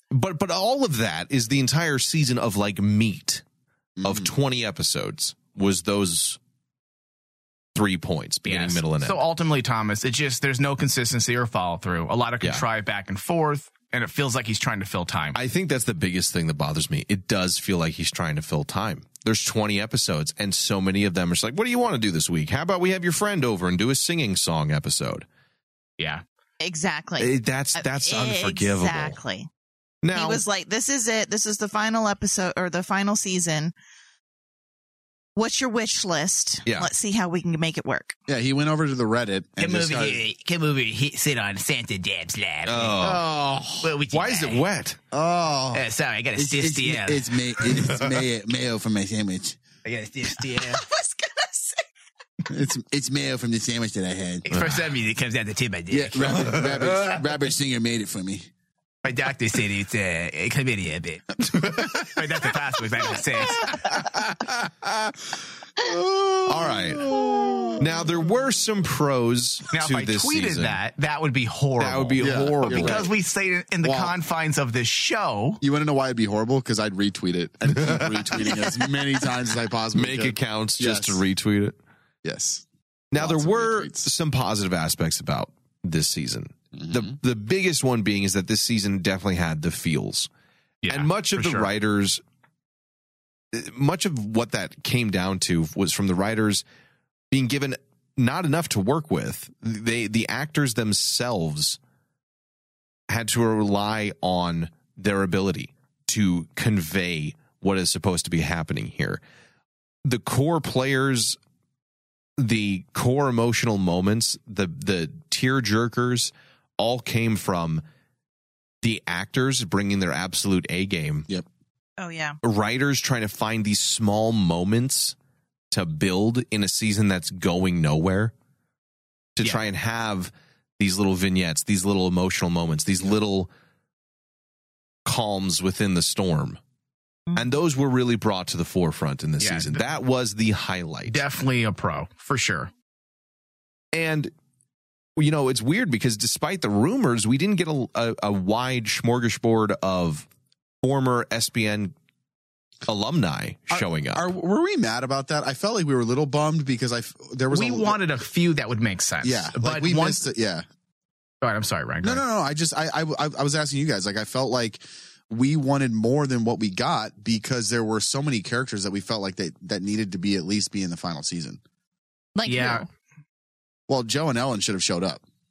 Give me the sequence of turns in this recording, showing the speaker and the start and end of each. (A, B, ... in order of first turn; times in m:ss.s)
0:00.1-0:03.4 A
0:04.0-0:04.3 B
0:04.0-0:06.4 A
0:07.7-0:09.2 A
0:08.4-0:15.4 C
0:15.3-0:25.2 A
0:26.6-0:29.5 D
0:27.2-0:29.2 A
0:30.0-0:30.4 A
0:30.1-0:33.7 D
0:35.4-0:38.1 D
0:38.3-0:40.2 B
0:39.6-0:43.2 C
0:42.6-0:43.3 A
0:43.0-0:43.9 B
0:43.8-0:44.6 C
0:44.1-0:45.0 A
0:45.1-0:45.8 B
0:45.7-0:47.6 C
0:46.4-0:49.6 B
0:49.8-0:50.8 C
0:50.5-0:51.8 D
0:52.4-0:54.4 B
0:54.4-0:56.7 C
0:54.5-0:54.9 A
0:55.9-0:58.5 B
0:59.0-1:03.9 C
1:01.6-1:02.0 A
1:03.8-1:05.1 A
1:05.8-1:07.9 B
1:06.4-1:07.1 A
1:07.8-1:10.8 A
1:09.7-1:15.6 C
1:11.8-1:13.1 A
1:12.2-1:13.1 B
1:13.8-1:14.1 B
1:15.6-1:21.2 B
1:17.8-1:18.4 A
1:19.9-1:21.8 A
1:22.2-1:24.1 B
1:23.1-1:30.3 A
1:26.8-1:27.1 B
1:30.8-1:31.7 C
1:30.9-1:32.2 A
1:33.5-1:36.6 A
1:37.3-1:41.8 A
1:43.1-1:49.2 A
1:50.0-1:51.4 A
1:52.4-1:57.8 A
1:58.8-2:01.3 A
2:02.0-2:02.4 D
2:02.4-2:05.1 A
2:05.7-2:08.3 A
2:09.4-2:13.5 A
2:15.0-2:16.6 A
2:17.3-2:21.2 A
2:19.4-2:19.8 C
2:21.1-2:22.7 C
2:23.9-2:24.3 A
2:25.2-2:30.3 A
2:30.8-2:31.9 A
2:32.8-2:34.3 A
2:33.7-2:38.0 B
2:37.5-2:40.2 C
2:39.2-2:40.6 B
2:41.4-2:42.2 C
2:42.0-2:51.6 B
2:52.3-2:52.9 D
2:52.4-2:52.8 C
2:53.9-2:55.2 B